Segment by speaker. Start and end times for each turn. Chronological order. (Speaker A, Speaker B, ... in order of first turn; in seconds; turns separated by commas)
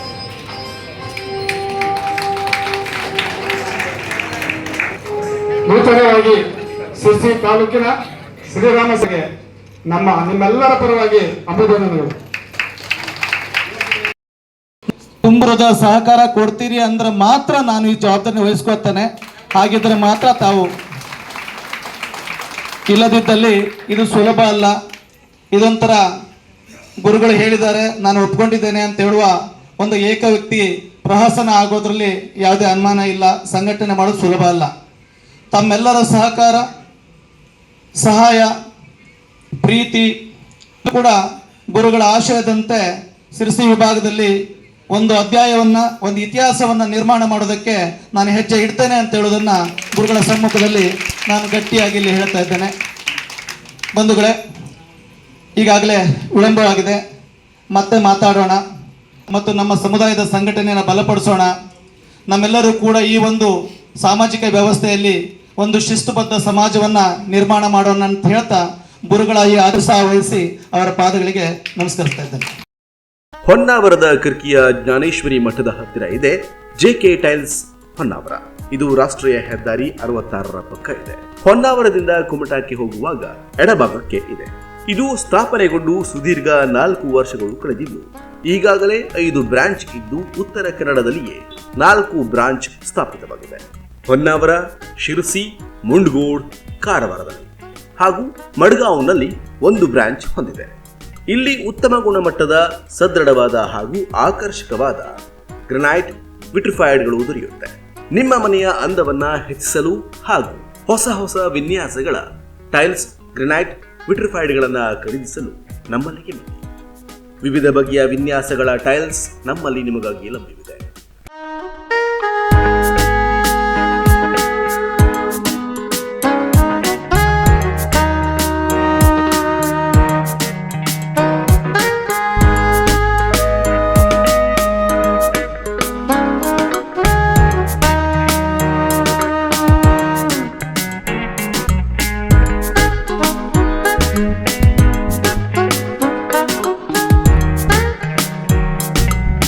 Speaker A: 5.7-6.4, Speaker B: 5.7-6.0, Speaker A: 7.0-7.9, Speaker B: 7.0-7.5, Speaker A: 8.5-9.2, Speaker B: 8.6-9.2, Speaker A: 9.9-12.1, Speaker B: 10.8-11.9, Speaker B: 15.2-20.7, Speaker B: 22.9-24.7, Speaker B: 25.5-26.0, Speaker B: 27.0-34.7, Speaker B: 35.5-36.6, Speaker B: 38.0-38.5, Speaker B: 39.6-40.1, Speaker B: 40.8-41.1, Speaker B: 41.7-42.8, Speaker B: 43.3-44.3, Speaker B: 44.9-52.7, Speaker B: 54.0-54.4, Speaker B: 55.6-57.0, Speaker B: 57.7-58.6, Speaker B: 59.3-61.5, Speaker B: 62.3-63.5, Speaker B: 64.0-72.4, Speaker C: 73.5-100.8, Speaker C: 101.3-105.1, Speaker C: 105.7-116.6, Speaker C: 117.4-120.8